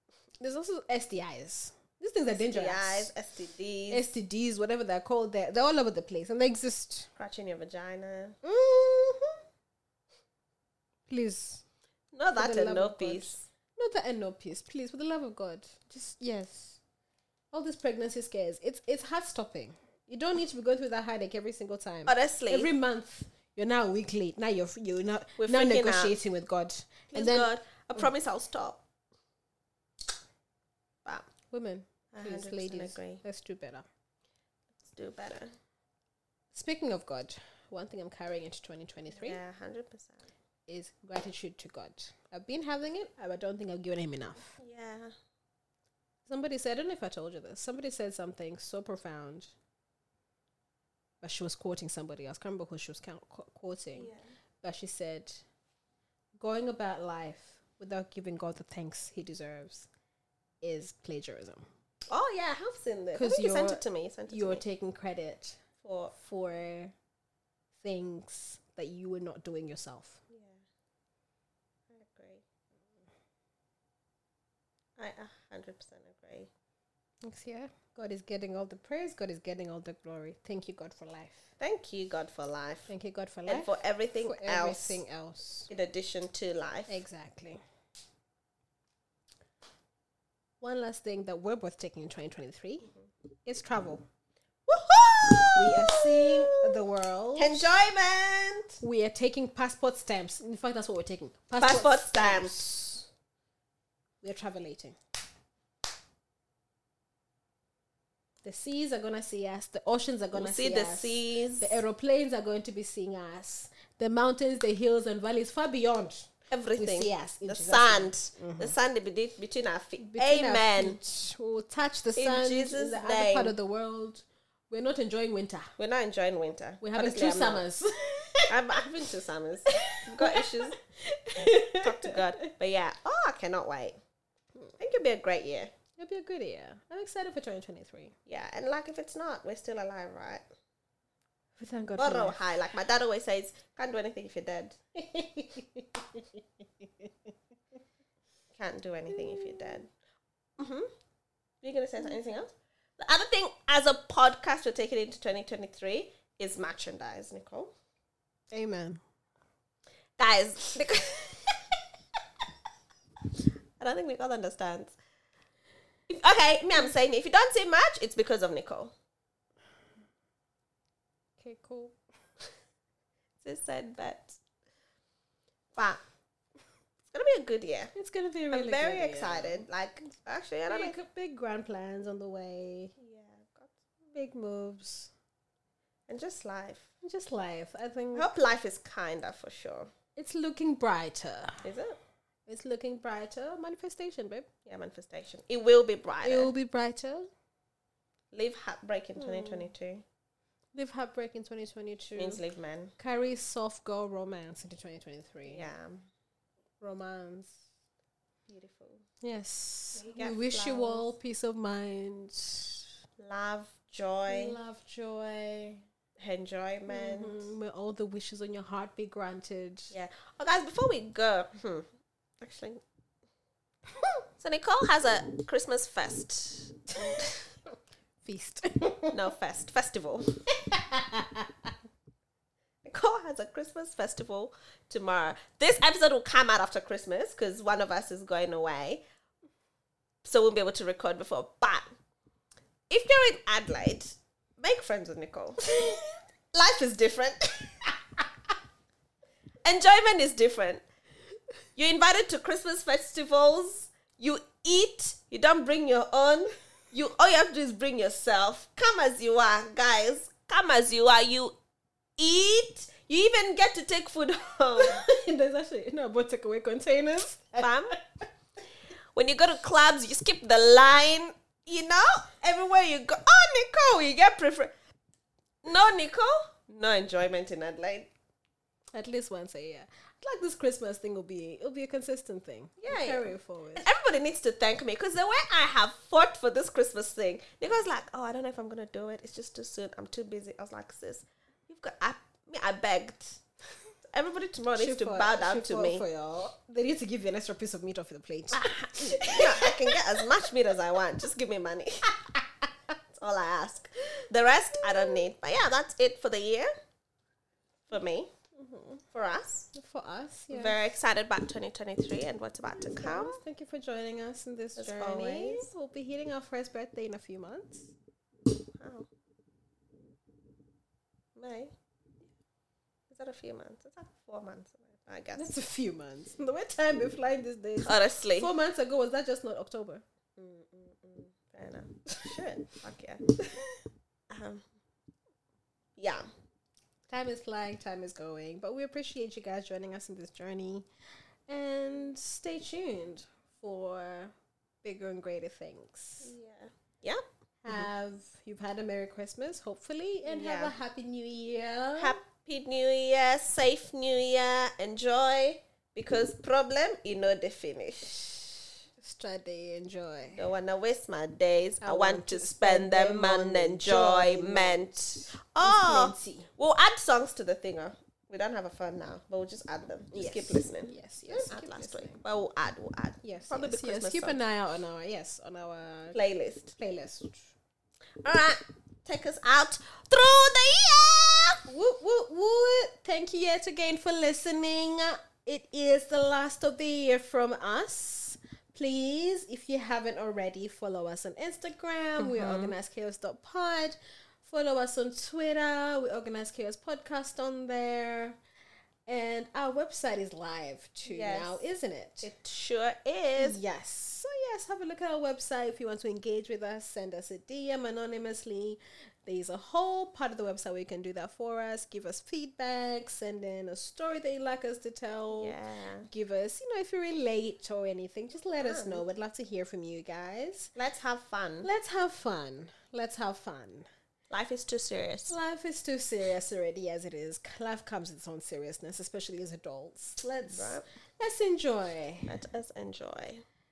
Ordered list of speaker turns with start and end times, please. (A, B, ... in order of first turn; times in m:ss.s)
0:00.4-0:03.1 A
0:02.4-0:04.0 B
0:03.9-0:07.1 A
0:07.2-0:08.4 B
0:08.4-0:09.4 A
0:11.1-0:11.6 A
0:12.1-0:13.5 B
0:12.4-0:16.8 A
0:17.5-0:28.1 A
0:22.1-0:22.7 B
0:25.4-0:26.2 B
0:27.1-0:28.8 B
0:31.5-0:33.9 A
0:32.1-0:33.2 B
0:34.8-0:35.6 B
0:36.5-0:39.4 A
0:39.2-0:40.2 B
0:40.7-0:44.6 A
0:44.6-0:45.1 B
0:46.3-0:49.5 A
0:51.2-0:55.4 A
0:54.0-0:54.2 B
0:56.4-0:59.9 A
1:00.6-1:01.7 A
1:02.1-1:04.6 B
1:03.2-1:05.6 A
1:05.8-1:06.1 B
1:06.1-1:06.9 A
1:07.8-1:10.2 A
1:10.3-1:10.6 B
1:11.9-1:12.4 B
1:15.0-1:16.5 B
1:17.2-1:21.5 A
1:21.6-1:22.9 B
1:22.9-1:25.7 A
1:23.5-1:25.0 B
1:25.7-1:27.0 B
1:26.9-1:27.6 A
1:30.6-1:32.9 A
1:33.5-1:34.0 A
1:34.7-1:36.8 B
1:35.6-1:37.7 A
1:37.4-1:38.8 B
1:38.8-1:43.0 A
1:41.6-1:42.7 B
1:44.2-1:45.0 A
1:48.4-1:58.8 A
1:50.3-1:51.8 B
1:56.5-2:01.0 B
2:00.0-2:05.7 A
2:02.2-2:03.6 B
2:05.8-2:07.6 B
2:06.8-2:08.6 A
2:08.5-2:10.8 B
2:09.7-2:12.5 A
2:11.5-2:14.0 B
2:14.8-2:15.7 B
2:16.0-2:18.2 A
2:18.3-2:20.4 B
2:21.6-2:22.4 A
2:22.0-2:24.8 B
2:25.0-2:27.1 A
2:28.5-2:29.9 B
2:29.1-2:29.8 A
2:30.6-2:30.9 B
2:31.6-2:37.7 B
2:38.5-2:39.0 A
2:40.2-2:41.8 B
2:43.8-2:45.0 B
2:46.1-2:48.9 B
2:51.4-2:52.0 A
2:53.4-2:54.4 B
2:55.8-2:56.0 B
2:57.1-2:57.9 B
2:57.9-2:59.7 A
2:58.5-3:01.0 B
3:00.7-3:02.9 A
3:03.0-3:03.7 B
3:04.1-3:05.1 A
3:06.1-3:06.9 B
3:07.0-3:08.3 A
3:08.2-3:09.9 B
3:10.2-3:11.7 A
3:11.6-3:12.0 B
3:12.5-3:14.5 A
3:14.7-3:16.5 B
3:16.2-3:17.3 A
3:18.3-3:20.0 B
3:19.2-3:19.7 A
3:20.7-3:22.4 A
3:22.2-3:22.9 B
3:23.0-3:25.7 A
3:25.4-3:26.1 B
3:26.8-3:27.6 A
3:28.5-3:29.0 B
3:29.2-3:32.8 A
3:30.0-3:31.1 B
3:33.2-3:34.6 B
3:34.3-3:35.8 A
3:36.2-3:37.5 B
3:36.9-3:39.9 A
3:39.9-3:41.9 B
3:42.4-3:42.8 B
3:44.4-3:47.5 B
3:48.2-3:49.2 A
3:49.1-3:50.3 B
3:50.5-3:51.7 A
3:52.8-3:59.0 B
4:00.2-4:01.9 B
4:02.9-4:06.0 B
4:06.5-4:08.2 B
4:09.6-4:10.8 B
4:11.8-4:21.6 B
4:22.2-4:25.0 B
4:24.8-4:28.0 A
4:27.6-4:28.0 B
4:29.1-4:34.7 B
4:35.6-4:38.1 B
4:38.9-4:43.9 A
4:42.8-4:53.4 B
4:54.1-4:56.0 B
4:54.8-5:00.2 A
4:58.5-5:02.2 B
5:03.1-5:06.7 B
5:07.9-5:08.3 B
5:08.6-5:09.0 A
5:09.1-5:09.7 B
5:09.7-5:10.8 A
5:10.5-5:13.4 B
5:12.9-5:17.9 A
5:14.8-5:15.7 B
5:18.7-5:19.1 B
5:21.4-5:21.7 B
5:23.1-5:25.6 B
5:25.4-5:30.0 A
5:27.8-5:28.5 B
5:30.4-5:33.4 B
5:34.3-5:34.6 B
5:36.0-5:36.3 B
5:37.1-5:40.9 A
5:41.5-5:46.3 A
5:46.2-5:47.9 B
5:47.6-5:52.2 A
5:50.2-5:50.8 B
5:52.0-5:58.7 B
5:59.0-6:00.4 A
6:00.3-6:14.4 B
6:01.8-6:06.5 A
6:10.1-6:12.2 A
6:13.2-6:16.2 A
6:16.1-6:16.8 B
6:16.8-6:17.5 A
6:18.2-6:21.6 B
6:21.7-6:38.4 A
6:32.2-6:32.7 B
6:39.1-6:42.3 A
6:41.0-6:41.6 B
6:42.2-6:43.6 B
6:43.4-6:55.6 A
6:55.4-6:56.1 B
6:56.1-7:00.7 A
6:58.6-6:59.0 B
7:00.8-7:01.7 B
7:01.6-7:03.9 A
7:04.3-7:05.3 B
7:05.3-7:12.3 A
7:10.4-7:10.8 B
7:12.3-7:13.4 B